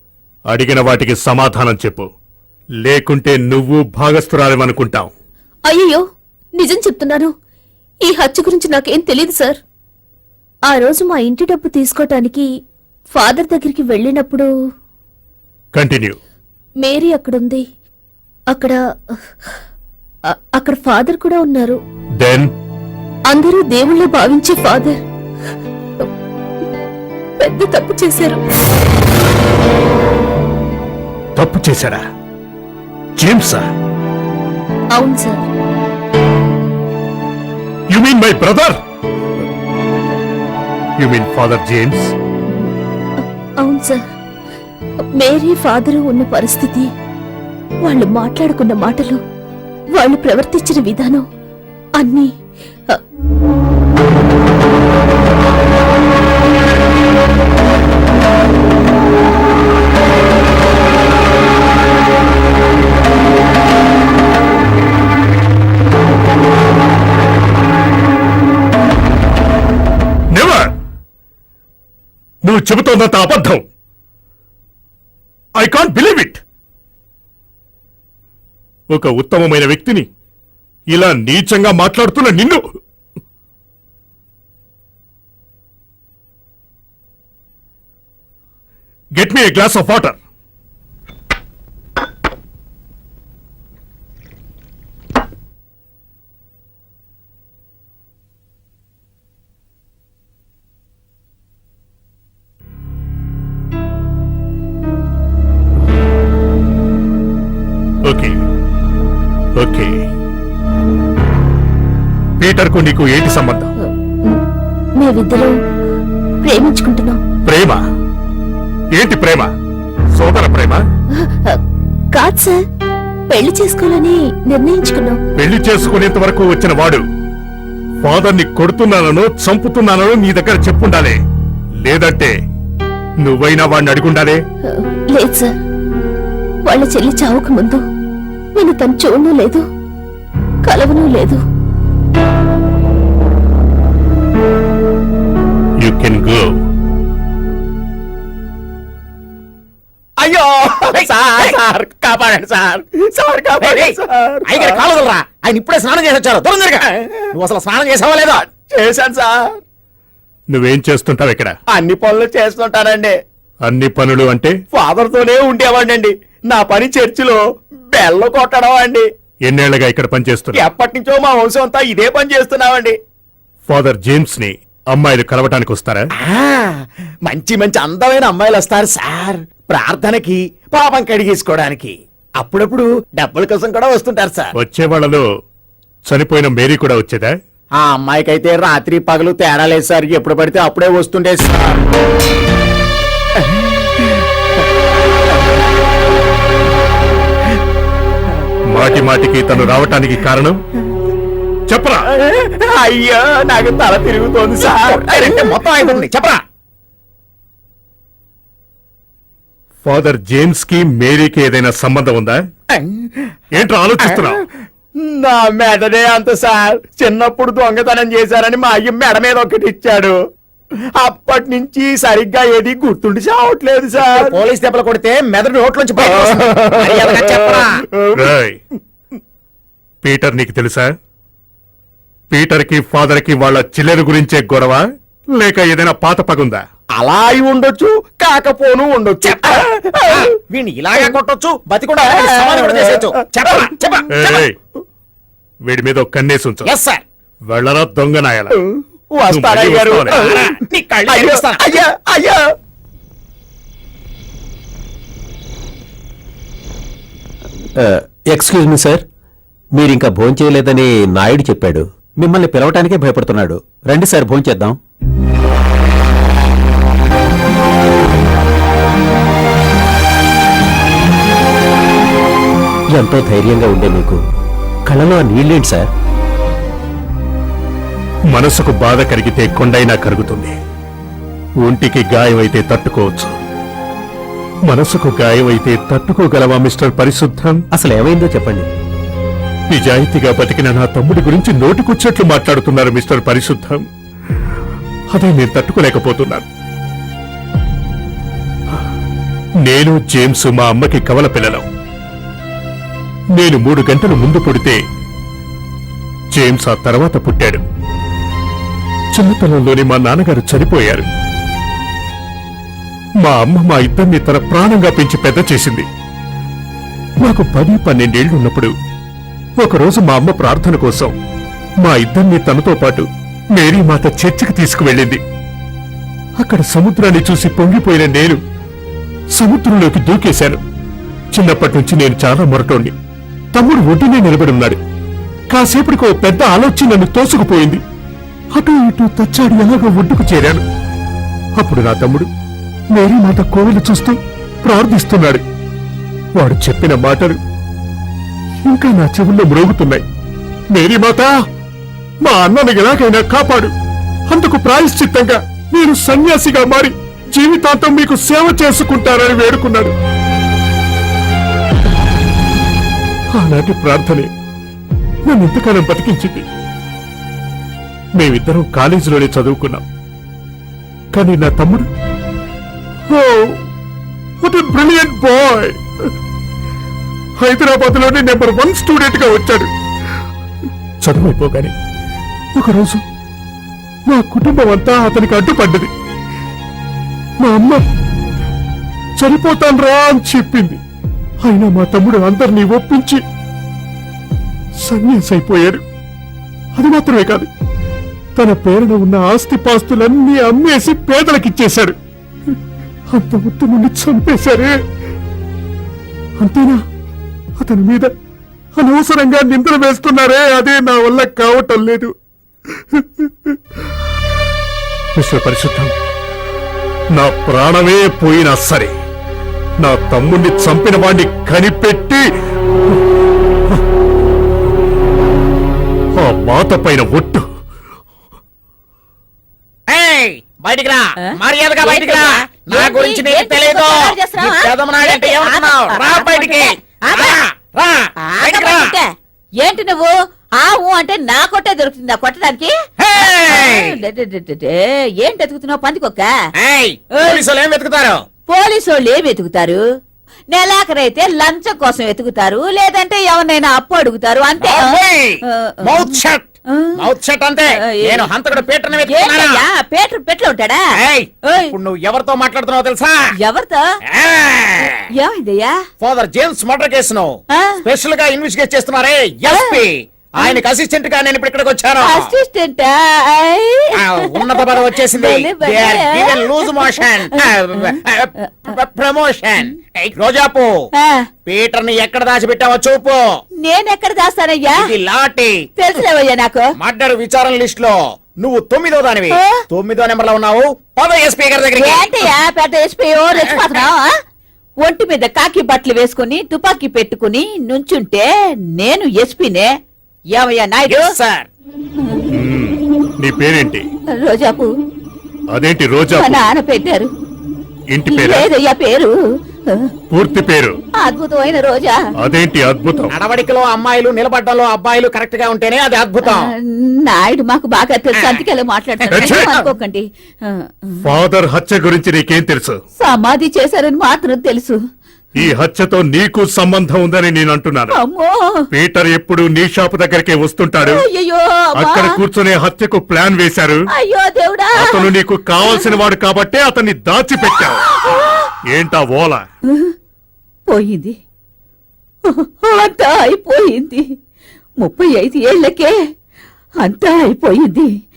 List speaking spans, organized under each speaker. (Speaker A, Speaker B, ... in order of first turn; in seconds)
Speaker A: 0.5-2.1, 2.8-5.1, 15.7-16.2, 22.2-22.5, 31.4-32.0, 33.2-33.7, 37.9-38.8, 41.0-42.1, 70.3-70.7, 72.4-73.6, 75.6-76.4, 78.9-80.1, 80.9-82.6, 89.2-90.2, 108.1-108.3, 109.6-109.9, 112.4-113.7, 117.4-117.8, 118.9-119.5, 120.1-120.8, 125.4-127.0, 128.0-131.2, 131.8-132.3, 133.2-134.4, 145.8-146.6, 160.5-161.5, 163.6-164.5, 169.5-170.6, 173.7-176.1, 184.6-185.2, 186.1-187.3, 198.7-200.6, 201.7-202.1, 209.8-212.4, 213.5-214.4, 228.1-228.6, 230.0-230.9, 232.3-234.8, 235.4-236.6, 244.1-244.6, 245.7-246.7, 247.5-248.5, 249.3-250.2, 278.3-280.5, 281.6-283.3, 284.7-287.6, 289.7-293.8, 295.1-296.4, 299.6-301.6, 303.3-304.8, 306.3-307.6, 309.1-311.1, 313.2-315.9, 317.2-318.7, 319.6-321.1, 321.8-325.2, 326.4-328.4, 329.3-330.6, 331.3-332.9, 333.5-334.8, 335.5-337.8, 338.5-340.6, 341.6-342.3, 342.9-345.4, 346.4-347.4, 348.6-350.0, 350.7-351.3, 352.2-353.7, 354.3-359.9, 363.3-364.3, 365.2-366.4, 368.2-369.8, 371.1-371.9, 373.1-373.6, 374.4-375.8, 377.4-379.7, 381.0-381.7, 382.5-383.0, 384.1-385.9, 387.4-387.8, 389.2-390.8, 391.4-393.2, 394.8-395.8, 396.8-397.5, 398.4-402.0, 403.1-404.8, 406.4-406.8, 407.6-408.1, 408.8-412.1, 412.9-413.3, 415.1-415.9, 417.1-418.9, 419.8-422.2, 426.1-427.4, 502.3-503.8, 505.5-506.4, 507.9-508.4, 510.1-510.7, 512.2-513.1, 519.1-519.6, 521.0-522.8, 525.4-528.0, 528.7-531.0, 531.8-533.8, 534.8-537.8, 538.7-539.4
Speaker B: 5.7-6.0, 6.6-7.3, 8.0-9.6, 10.7-12.5, 13.1-14.5, 16.8-17.6, 18.5-19.2, 20.3-21.8, 23.3-25.0, 27.4-28.4, 34.9-35.5, 43.6-44.0, 45.2-46.9, 47.8-49.2, 50.0-51.2, 52.0-52.3, 113.8-114.4, 115.0-115.5, 116.4-117.2, 121.2-121.6, 122.1-122.6, 123.3-125.2, 134.7-135.5, 136.7-137.8, 138.5-139.7, 140.7-141.4
Speaker C: 150.2-154.8, 158.5-159.5, 161.7-163.2, 164.7-167.4, 167.9-169.1, 170.5-173.0, 177.2-184.5, 187.8-191.8, 202.1-205.4, 215.0-220.1, 221.0-224.4, 226.0-228.1, 236.9-240.2, 242.1-243.1, 249.1-250.5, 251.1-252.4
Speaker D: 150.9-151.6, 153.6-158.4, 176.3-176.7, 204.6-206.4, 224.0-227.8, 239.2-244.4, 246.6-247.0, 250.1-251.6, 429.9-438.9, 443.0-444.0, 446.6-448.2, 454.6-459.6, 461.0-463.2, 464.1-465.0, 466.0-472.3, 473.9-480.7, 481.4-483.4, 484.7-485.6, 486.8-492.3, 493.3-493.9, 500.9-501.5, 513.1-516.5, 518.2-518.4, 519.0-519.4
Speaker E: 257.8-259.0, 259.8-264.8, 272.9-274.2, 274.9-275.9, 287.8-288.7
Speaker F: 431.8-437.4, 438.4-439.1, 439.6-446.3, 447.1-447.4, 448.5-449.8, 450.5-456.2, 458.0-458.3, 459.0-460.8, 463.4-463.8, 465.2-465.7, 469.5-469.8, 472.0-477.0, 481.0-481.2, 483.6-484.7, 485.8-486.6, 491.8-494.1, 494.8-498.2, 498.8-499.7, 500.4-501.1, 504.2-504.7, 506.1-507.1, 508.1-509.1, 511.0-511.9, 516.2-520.9, 523.0-524.8, 528.0-528.4, 530.8-532.1, 534.0-535.1, 538.0-538.4, 540.7-541.1, 542.3-544.0, 544.8-545.9, 546.8-547.9